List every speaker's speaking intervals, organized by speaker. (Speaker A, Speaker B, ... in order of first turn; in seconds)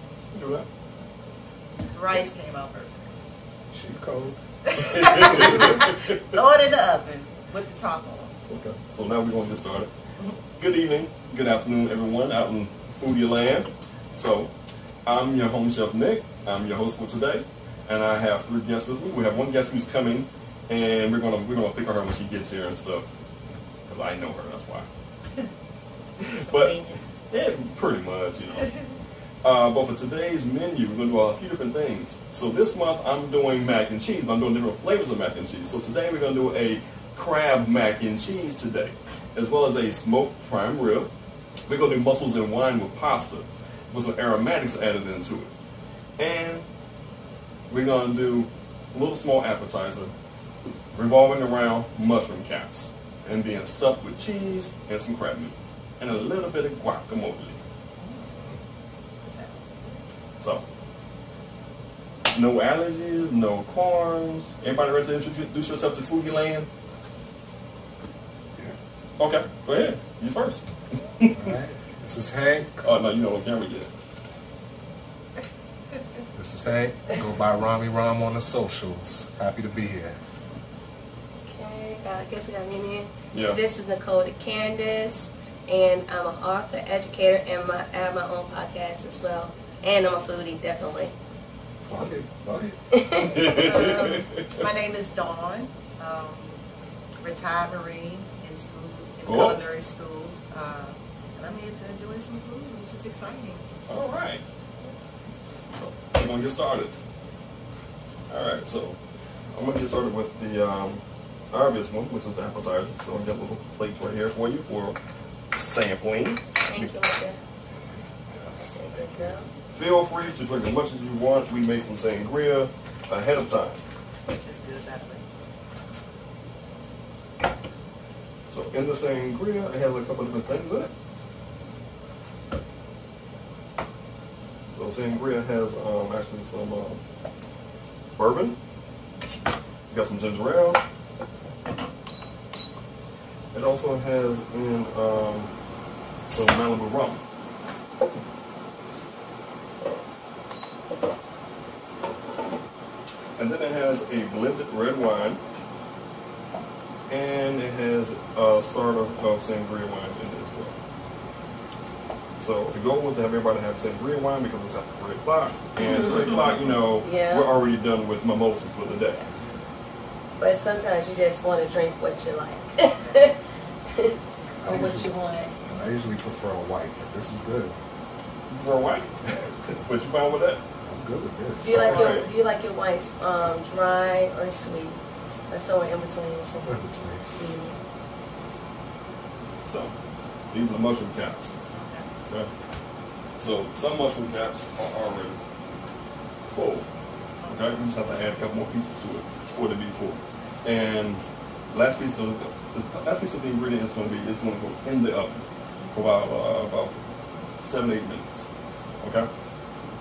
Speaker A: 0.3-0.7, 4.8-6.4, 8.5-9.9, 10.6-14.5, 15.1-23.1, 23.9-24.9, 26.2-26.8, 27.3-28.8, 29.4-41.1, 41.7-45.5, 46.2-46.6, 47.7-50.1, 50.9-57.6, 60.4-60.7, 62.3-66.7, 69.2-71.5, 72.8-73.9, 83.3-83.6, 93.2-94.6, 99.3-99.6, 103.9-104.4, 105.7-107.0, 108.3-109.0, 109.5-115.0, 115.5-117.0, 119.7-123.8, 128.5-130.9, 134.7-137.0, 138.2-138.6, 139.9-140.8, 143.5-145.5, 146.2-147.2, 153.4-155.4, 157.1-160.8, 162.4-169.2, 178.5-180.6, 181.7-182.3, 189.6-189.9, 190.5-191.5, 193.4-195.4, 196.4-196.9, 197.5-205.4, 205.9-206.9, 207.6-208.5, 209.0-209.3
Speaker B: 1.9-3.1, 4.7-8.3, 26.2-27.0, 28.6-28.9, 58.0-58.4, 59.2-60.1, 93.5-96.6, 97.2-103.6, 124.3-125.2, 166.3-166.5, 172.9-173.3, 191.7-192.1
Speaker C: 3.7-4.4, 5.1-5.4, 71.3-72.9, 76.3-80.2, 91.8-92.8, 117.9-119.5, 174.6-177.8, 180.8-182.2, 186.6-187.3
Speaker D: 81.5-91.1, 92.9-94.2, 116.7-117.4, 118.6-119.5, 165.8-166.4, 167.0-167.5, 170.4-173.4, 173.9-175.5, 181.6-185.0, 185.5-186.8, 187.3-187.8